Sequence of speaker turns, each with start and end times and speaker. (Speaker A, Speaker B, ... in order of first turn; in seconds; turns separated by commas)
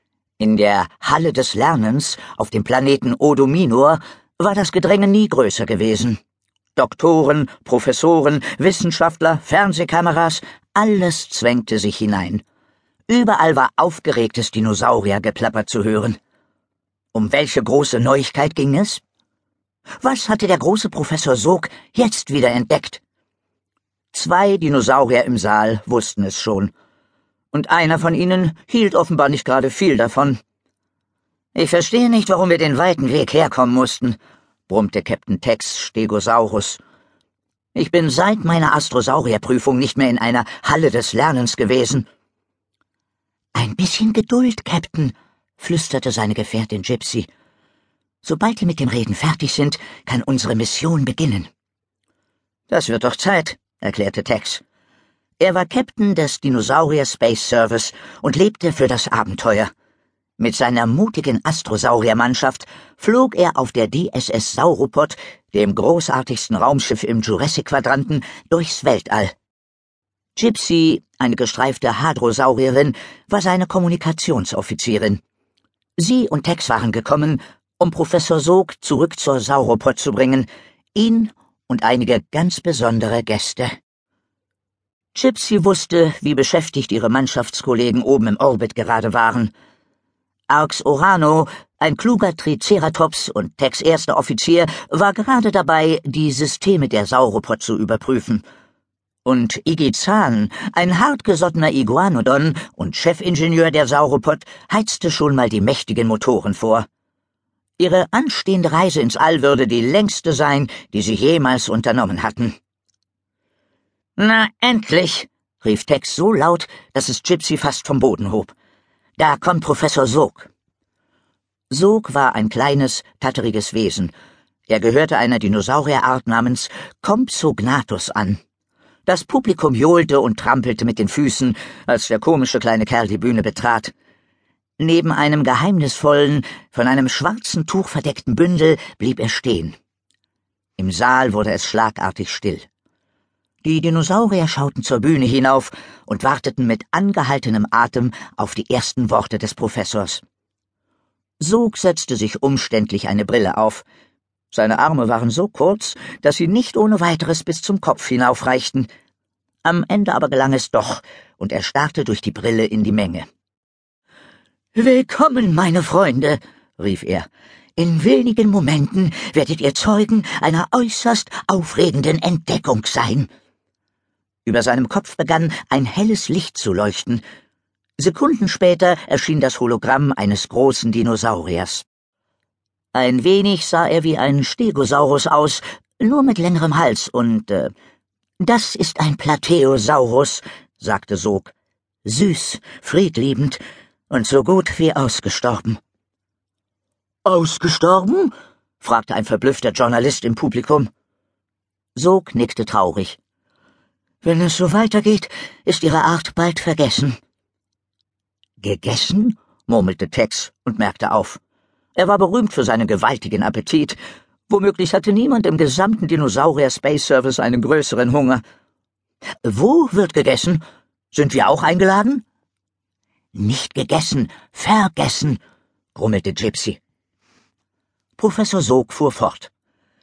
Speaker A: 0.4-6.2, Speaker A: 6.8-12.4, Speaker A: 13.1-16.2, Speaker A: 17.1-19.0, Speaker A: 20.0-23.0, Speaker A: 24.1-26.7, Speaker A: 27.5-30.4, Speaker A: 31.6-34.2, Speaker A: 34.7-36.8, Speaker A: 37.8-42.1, Speaker A: 43.5-47.3, Speaker A: 48.2-51.5, Speaker A: 52.7-54.6, Speaker A: 55.4-59.7, Speaker A: 60.4-69.3, Speaker A: 70.4-75.2, Speaker A: 76.0-83.7, Speaker A: 85.1-89.5, Speaker A: 90.5-98.4, Speaker A: 99.2-106.9, Speaker A: 107.8-112.6, Speaker A: 114.2-118.5, Speaker A: 119.2-120.5, Speaker A: 121.7-124.1, Speaker A: 124.7-128.4, Speaker A: 129.1-133.9, Speaker A: 134.8-139.8, Speaker A: 140.8-142.7, Speaker A: 143.6-150.2, Speaker A: 151.4-153.8, Speaker A: 154.5-158.9, Speaker A: 159.6-163.3, Speaker A: 164.8-173.3, Speaker A: 174.5-177.2, Speaker A: 178.0-181.8, Speaker A: 182.9-187.7, Speaker A: 188.4-191.5, Speaker A: 192.1-193.6, Speaker A: 194.1-195.8, Speaker A: 197.2-200.9, Speaker A: 202.0-203.2, Speaker A: 204.2-207.2, Speaker A: 208.6-211.4, Speaker A: 212.0-214.0, Speaker A: 214.5-218.4, Speaker A: 219.4-220.6, Speaker A: 221.1-222.2, Speaker A: 223.3-225.4, Speaker A: 225.9-226.8, Speaker A: 228.2-229.5